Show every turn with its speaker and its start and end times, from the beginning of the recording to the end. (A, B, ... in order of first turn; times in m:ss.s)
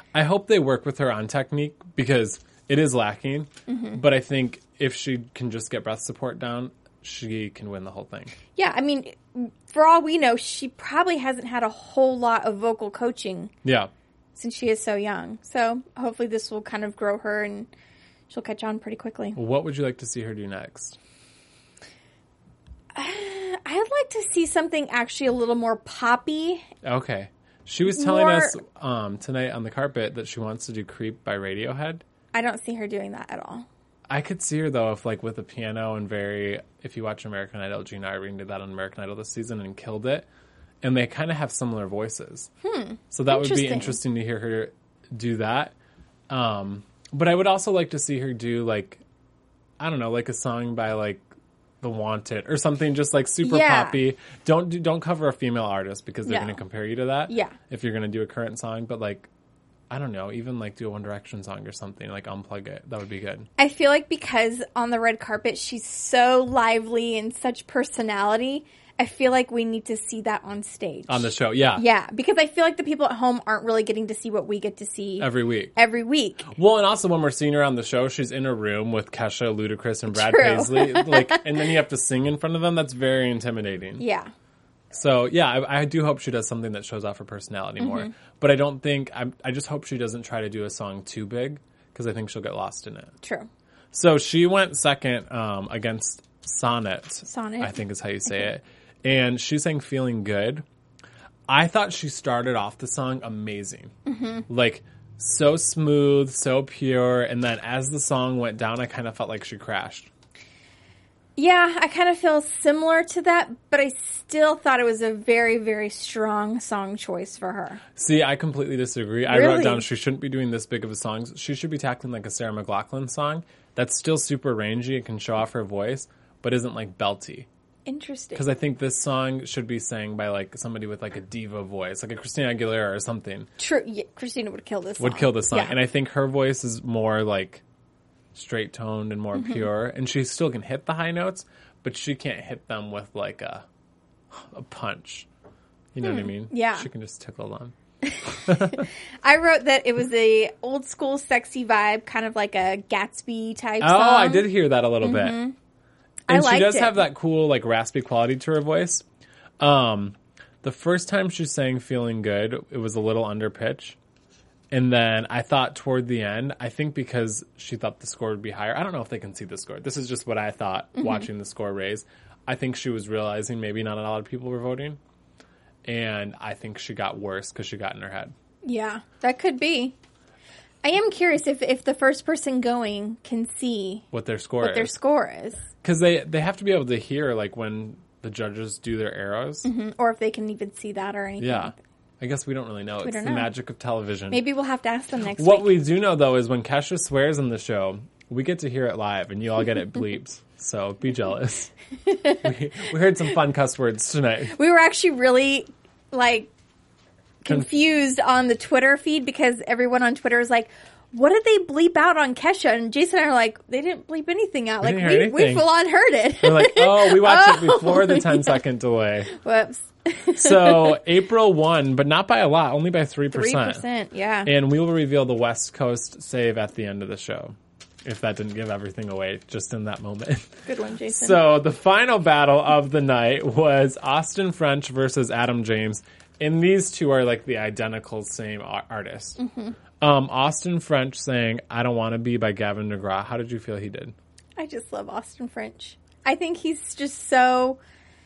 0:00.1-0:08.4 A
0:03.7-0:04.0 B
0:08.6-0:13.5 B
0:14.4-0:17.7 B
0:18.3-0:19.4 B
0:19.4-0:21.0 A
0:23.0-0:26.6 B
0:26.8-0:32.0 A
0:27.9-0:28.6 B
0:32.3-0:33.7 B
0:34.1-0:40.3 A
0:40.8-0:42.5 A
0:42.6-0:44.0 B
0:43.1-0:45.7 A
0:46.3-0:49.0 A
0:49.8-0:51.3 A
0:51.8-0:59.3 A
0:53.4-0:54.0 B
0:56.3-0:56.6 B
0:57.3-0:57.6 B
0:59.9-1:03.5 A
1:03.6-1:16.5 B
1:11.1-1:11.8 A
1:15.2-1:15.7 A
1:16.5-1:24.0 A
1:20.1-1:21.7 B
1:24.0-1:24.3 B
1:24.9-1:33.1 A
1:27.8-1:28.1 B
1:33.2-1:33.5 B
1:33.9-1:40.6 A
1:37.3-1:37.8 B
1:41.5-1:43.9 A
1:44.1-1:44.5 B
1:44.5-1:50.1 A
1:51.4-1:57.8 B
1:58.0-2:07.5 A
1:59.3-1:59.9 B
2:07.9-2:08.4 B
2:08.4-2:13.5 A
2:13.6-2:15.8 B
2:15.0-2:17.6 A
2:18.3-2:23.6 A
2:19.3-2:19.7 B
2:24.4-2:25.3 A
2:25.9-2:27.7 A
2:26.0-2:26.9 B
2:28.0-2:35.6 B
2:28.5-2:28.8 A
2:33.8-2:35.4 A
2:36.3-2:37.1 B
2:36.3-2:39.0 A
2:39.6-2:44.0 A
2:44.7-2:55.0 A
2:51.0-2:51.3 B
2:55.9-2:58.3 A
2:58.6-3:00.0 B
3:00.8-3:04.0 B
3:04.1-3:04.9 A
3:04.6-3:05.6 B
3:05.8-3:09.7 A
3:09.6-3:11.7 B
3:11.4-3:14.4 A
3:13.0-3:13.5 B
3:14.3-3:15.7 B
3:15.4-3:24.6 A
3:22.1-3:22.4 B
3:24.5-3:26.5 B
3:27.4-3:38.6 B
3:27.5-3:27.7 A
3:34.8-3:35.7 A
3:36.4-3:39.3 A
3:39.3-3:41.0 B
3:40.4-3:43.8 A
3:43.3-3:44.5 B
3:44.4-3:50.5 A
3:50.7-3:51.5 B
3:51.1-3:59.4 A
3:59.4-3:59.8 B
4:00.0-4:04.1 A
4:04.6-4:07.8 B